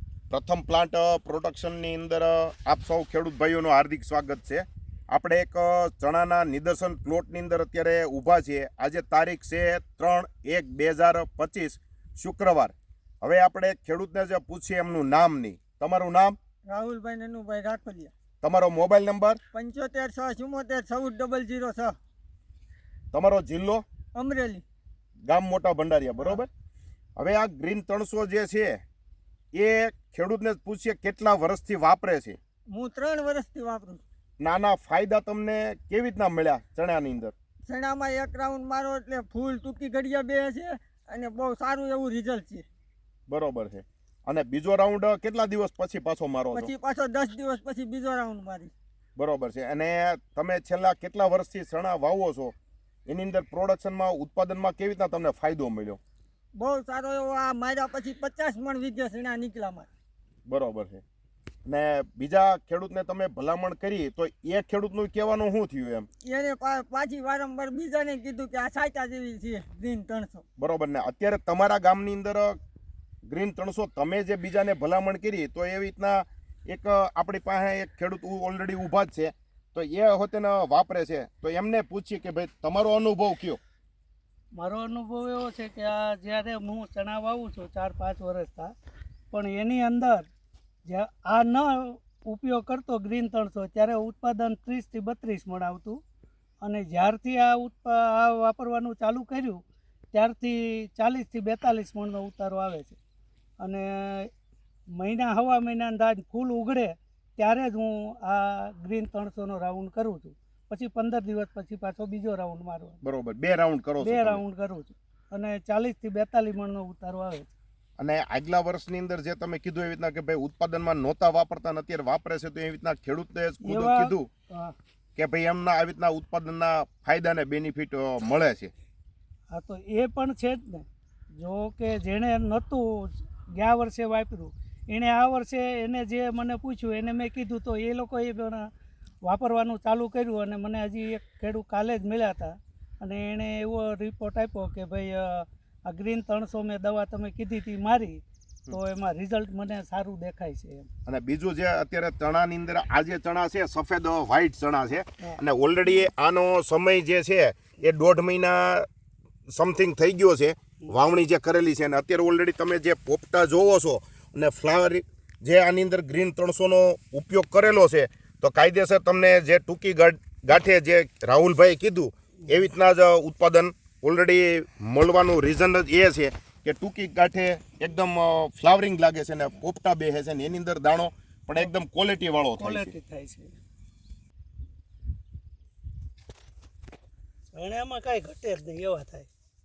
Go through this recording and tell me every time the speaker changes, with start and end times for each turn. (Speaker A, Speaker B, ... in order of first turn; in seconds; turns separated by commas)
Speaker A: 0.3-16.4, Speaker B: 16.7-18.1, Speaker A: 18.4-19.4, Speaker B: 19.5-22.0, Speaker A: 23.1-23.8, Speaker B: 24.1-24.6, Speaker A: 25.3-26.5, Speaker A: 27.2-28.8, Speaker A: 29.5-32.4, Speaker B: 32.7-34.0, Speaker A: 34.4-37.3, Speaker B: 37.7-42.7, Speaker A: 43.3-46.7, Speaker B: 46.5-48.7, Speaker A: 49.2-52.5, Speaker A: 53.1-56.0, Speaker B: 56.5-59.9, Speaker A: 60.5-61.0, Speaker A: 61.7-66.1, Speaker B: 66.2-70.4, Speaker A: 70.6-72.6, Speaker A: 73.3-83.6, Speaker C: 84.6-88.7, Speaker C: 89.3-90.3, Speaker C: 90.9-96.0, Speaker C: 96.6-99.6, Speaker C: 100.1-103.0, Speaker C: 103.6-104.3, Speaker C: 105.0-113.0, Speaker A: 113.0-114.4, Speaker C: 114.0-117.5, Speaker A: 118.0-124.3, Speaker C: 123.6-124.8, Speaker A: 125.2-128.7, Speaker C: 129.5-138.7, Speaker C: 139.2-150.9, Speaker A: 151.1-158.9, Speaker A: 159.5-182.9, Speaker C: 182.6-183.5, Speaker C: 187.5-189.3